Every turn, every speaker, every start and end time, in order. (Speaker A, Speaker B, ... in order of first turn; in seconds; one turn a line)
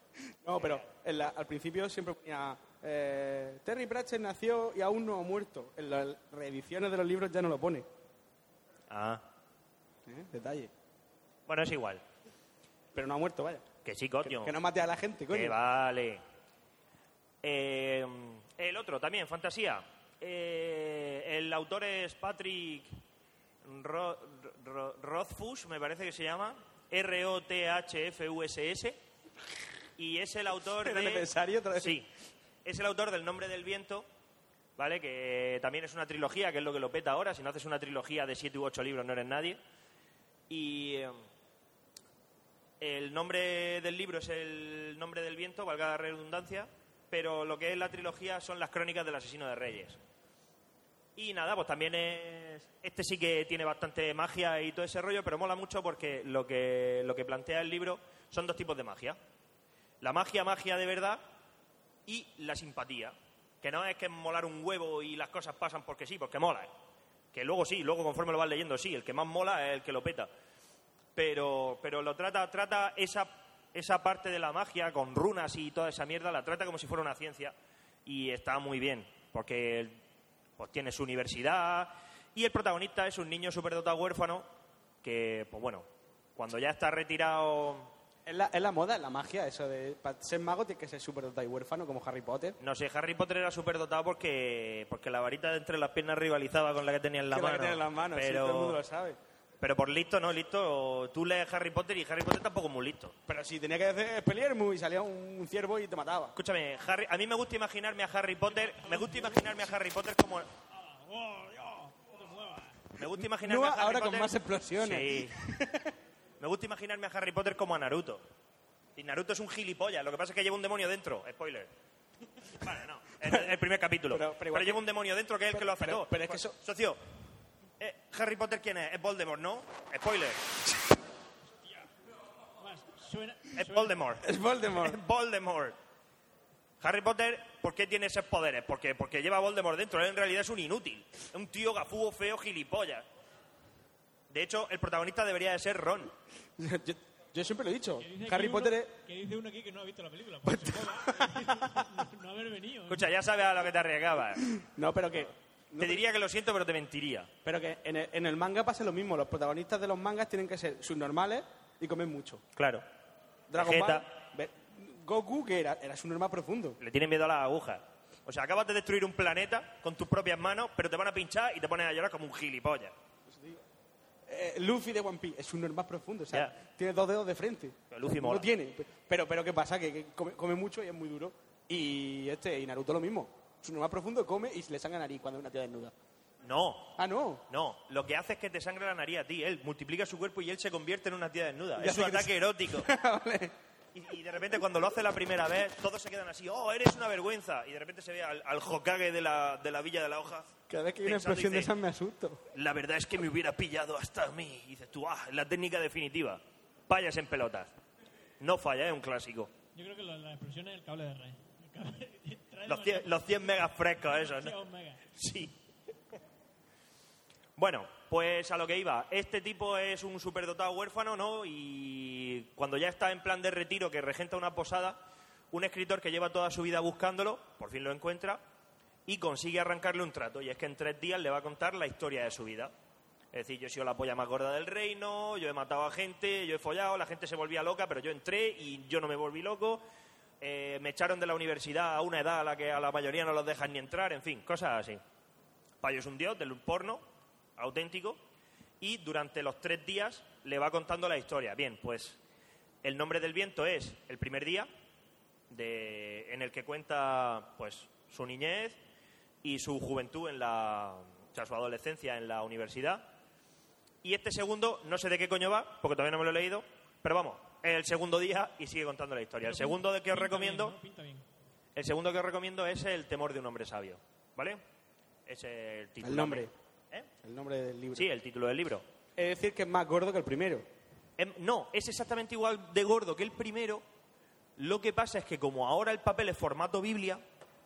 Speaker A: 0.4-7.9
Speaker B: 8.9-9.2
Speaker A: 10.1-10.7
Speaker B: 11.5-12.0
Speaker A: 12.9-13.7
Speaker B: 13.8-14.5
Speaker A: 14.2-15.6
Speaker B: 15.3-16.2
Speaker B: 17.4-22.9
Speaker B: 23.6-29.0
Speaker B: 30.0-32.1
Speaker A: 30.8-32.0
Speaker B: 32.6-34.1
Speaker B: 34.8-39.6
Speaker B: 40.5-41.2
Speaker B: 42.8-50.0
Speaker B: 51.2-59.2
Speaker B: 60.0-61.2
Speaker B: 62.1-66.7
Speaker B: 67.3-70.3
Speaker B: 71.2-77.5
Speaker B: 78.1-80.0
Speaker B: 80.6-84.5
Speaker B: 85.0-85.8
Speaker B: 86.4-87.9
Speaker A: 88.3-92.6
Speaker B: 92.6-98.8
Speaker A: 97.3-99.2
Speaker B: 99.6-103.1
Speaker A: 103.3-106.3
Speaker B: 106.4-110.5
Speaker C: 108.5-109.6
Speaker C: 110.7-112.8
Speaker B: 113.0-115.4
Speaker A: 113.1-115.9
Speaker B: 116.4-118.2
Speaker B: 119.0-121.7
Speaker B: 122.6-127.0
Speaker A: 124.1-124.8
Speaker A: 125.5-126.6
Speaker B: 127.8-130.4
Speaker C: 131.6-131.9
Speaker C: 132.6-134.0
Speaker B: 133.6-135.8
Speaker A: 134.2-135.0
Speaker B: 136.8-143.1
Speaker B: 144.3-146.1
Speaker A: 146.6-148.9
Speaker C: 148.0-153.1
Speaker A: 150.5-151.8
Speaker B: 152.9-154.5
Speaker A: 154.4-156.0
Speaker B: 155.8-157.3
Speaker A: 157.4-162.4
Speaker B: 162.6-162.8
Speaker A: 163.5-166.8
Speaker B: 163.6-164.1
Speaker B: 166.8-172.9
Speaker A: 173.3-173.6
Speaker A: 174.3-185.9
Speaker B: 177.9-178.5
Speaker B: 186.4-186.9
Speaker A: 187.0-187.4
Speaker B: 187.5-192.9
Speaker A: 191.8-193.5
Speaker B: 193.9-200.5
Speaker A: 200.7-202.4
Speaker B: 201.0-201.7
Speaker B: 202.5-207.7
Speaker B: 208.4-209.5
Speaker C: 209.8-213.2
Speaker B: 212.7-214.6
Speaker C: 214.0-215.1
Speaker B: 215.1-215.5
Speaker B: 217.6-225.0
Speaker B: 225.5-228.4
Speaker B: 229.1-232.7
Speaker B: 233.3-239.8
Speaker B: 240.4-245.0
Speaker B: 245.8-247.0
Speaker B: 247.6-248.2
Speaker B: 248.8-252.2
Speaker B: 252.8-254.7
Speaker B: 255.5-258.8
Speaker B: 259.4-263.1
Speaker B: 264.0-270.8
Speaker C: 269.4-271.2
Speaker B: 271.8-274.6
Speaker B: 275.3-277.1
Speaker A: 276.0-276.5
Speaker A: 277.2-278.1
Speaker B: 277.9-278.9
Speaker A: 279.2-280.7
Speaker B: 281.2-283.8
Speaker B: 284.6-287.2